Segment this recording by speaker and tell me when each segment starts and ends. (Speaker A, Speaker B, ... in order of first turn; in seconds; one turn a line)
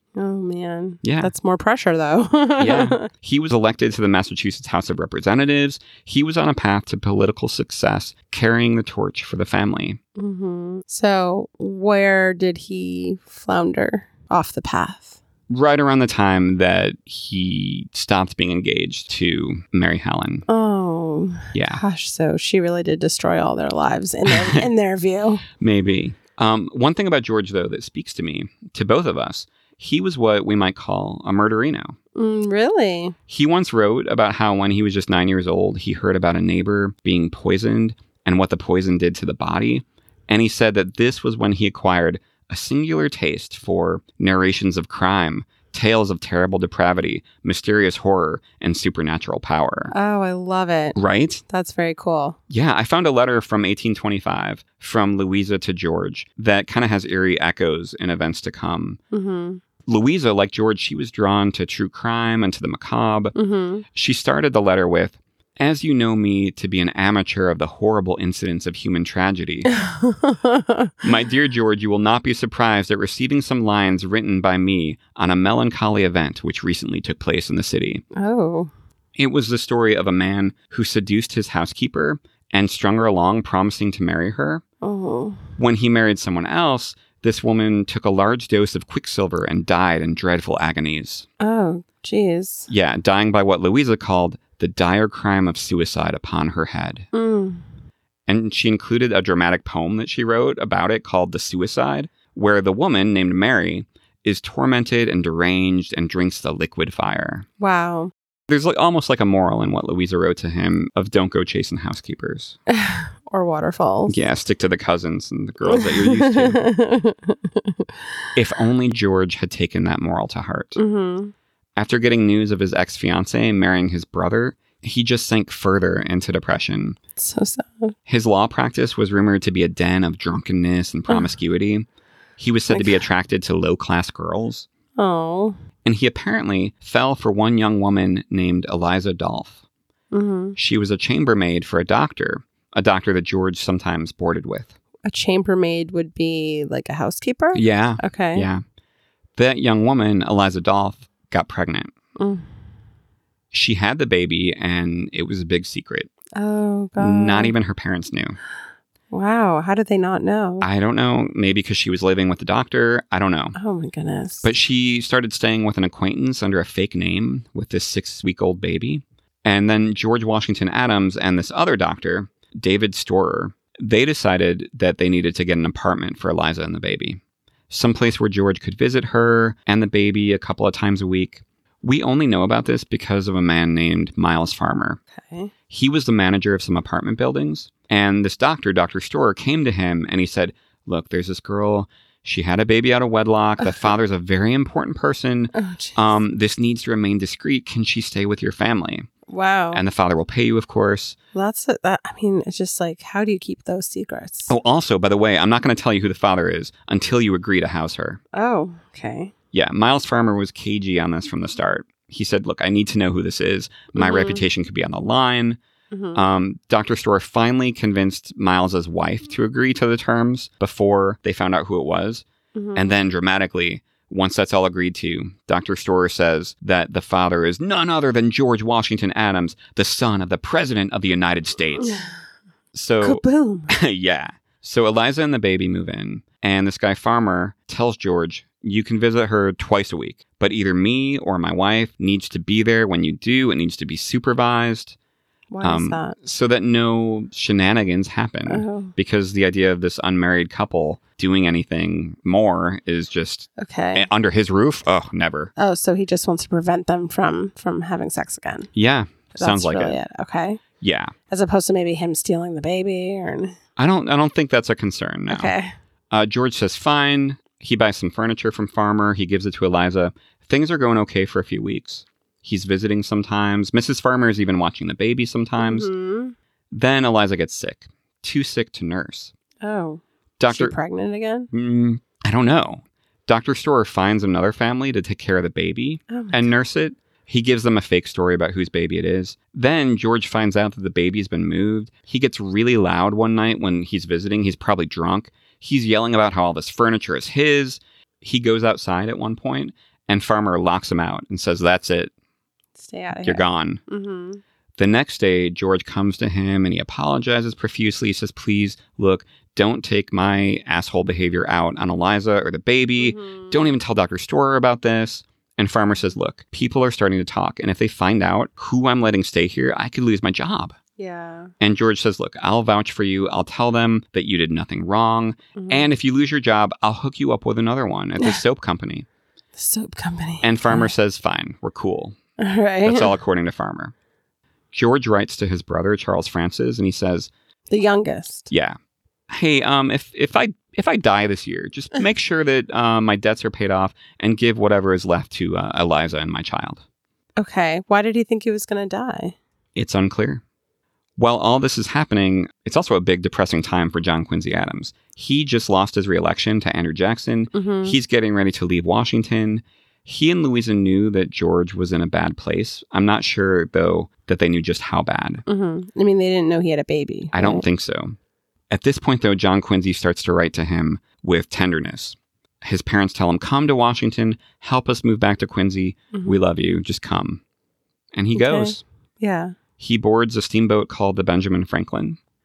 Speaker A: 0.1-3.1
Speaker B: 1.0-1.3
Speaker B: 2.6-10.0
Speaker A: 10.2-15.2
Speaker B: 15.5-20.4
Speaker A: 20.5-25.4
Speaker B: 21.5-21.8
Speaker B: 24.3-24.7
Speaker B: 25.6-31.9
Speaker A: 32.1-33.1
Speaker B: 33.3-49.9
Speaker A: 49.9-52.4
Speaker B: 50.9-51.4
Speaker B: 52.5-59.0
Speaker A: 59.1-59.6
Speaker B: 59.9-63.3
Speaker A: 63.4-63.8
Speaker B: 63.9-69.7
Speaker A: 69.7-70.9
Speaker B: 71.0-78.0
Speaker A: 78.1-78.7
Speaker B: 79.2-84.6
Speaker A: 84.8-85.5
Speaker B: 85.6-91.3
Speaker A: 91.4-92.7
Speaker B: 92.7-97.1
Speaker A: 97.1-97.6
Speaker B: 98.3-107.5
Speaker A: 107.6-108.1
Speaker B: 108.5-112.6
Speaker A: 112.7-114.2
Speaker B: 114.1-116.6
Speaker A: 115.7-117.8
Speaker B: 118.3-120.8
Speaker A: 120.8-121.3
Speaker B: 121.8-127.0
Speaker A: 127.2-127.9
Speaker B: 128.1-131.9
Speaker B: 132.4-134.7
Speaker A: 132.7-133.0
Speaker A: 135.0-135.6
Speaker B: 135.8-139.6
Speaker A: 140.1-140.6
Speaker B: 140.6-144.7
Speaker A: 145.0-148.5
Speaker B: 147.5-148.6
Speaker B: 149.4-151.9
Speaker A: 152.2-152.5
Speaker B: 153.5-156.1
Speaker A: 156.3-157.5
Speaker B: 157.0-158.4
Speaker A: 159.1-160.7
Speaker B: 160.6-163.6
Speaker A: 163.5-164.5
Speaker B: 164.4-185.0
Speaker A: 185.1-185.5
Speaker B: 185.7-199.1
Speaker A: 195.5-196.2
Speaker A: 199.3-199.8
Speaker B: 199.7-201.2
Speaker A: 201.3-204.5
Speaker B: 204.5-208.2
Speaker A: 208.3-209.3
Speaker B: 209.5-215.6
Speaker A: 213.9-214.4
Speaker A: 215.9-216.2
Speaker B: 216.1-232.0
Speaker A: 222.5-222.9
Speaker B: 232.7-244.9
Speaker A: 233.0-233.7
Speaker A: 245.5-246.1
Speaker B: 245.6-255.5
Speaker A: 248.5-248.9
Speaker A: 253.6-254.1
Speaker A: 255.6-258.7
Speaker B: 258.7-260.0
Speaker A: 259.3-260.6
Speaker B: 260.8-261.1
Speaker A: 261.3-263.6
Speaker B: 263.8-265.5
Speaker A: 265.3-265.7
Speaker B: 266.1-275.9
Speaker A: 275.6-276.3
Speaker B: 276.7-279.3
Speaker A: 279.6-281.5
Speaker B: 280.4-280.8
Speaker B: 281.5-302.1
Speaker A: 286.1-286.5
Speaker A: 302.8-304.4
Speaker B: 303.2-303.8
Speaker B: 304.8-320.8
Speaker A: 313.0-313.7
Speaker A: 321.0-321.5
Speaker B: 321.6-329.1
Speaker A: 325.5-325.9
Speaker A: 329.6-330.9
Speaker B: 330.4-332.1
Speaker A: 332.4-333.1
Speaker B: 332.8-333.9
Speaker B: 334.7-337.3
Speaker A: 337.7-338.5
Speaker B: 338.5-338.8
Speaker B: 339.3-346.8
Speaker A: 347.4-349.4
Speaker B: 349.8-350.4
Speaker B: 351.2-365.4
Speaker A: 357.5-358.0
Speaker A: 365.4-367.6
Speaker B: 367.3-368.2
Speaker B: 368.7-377.4
Speaker A: 376.1-376.4
Speaker B: 378.1-378.8
Speaker A: 378.3-379.6
Speaker B: 379.8-382.2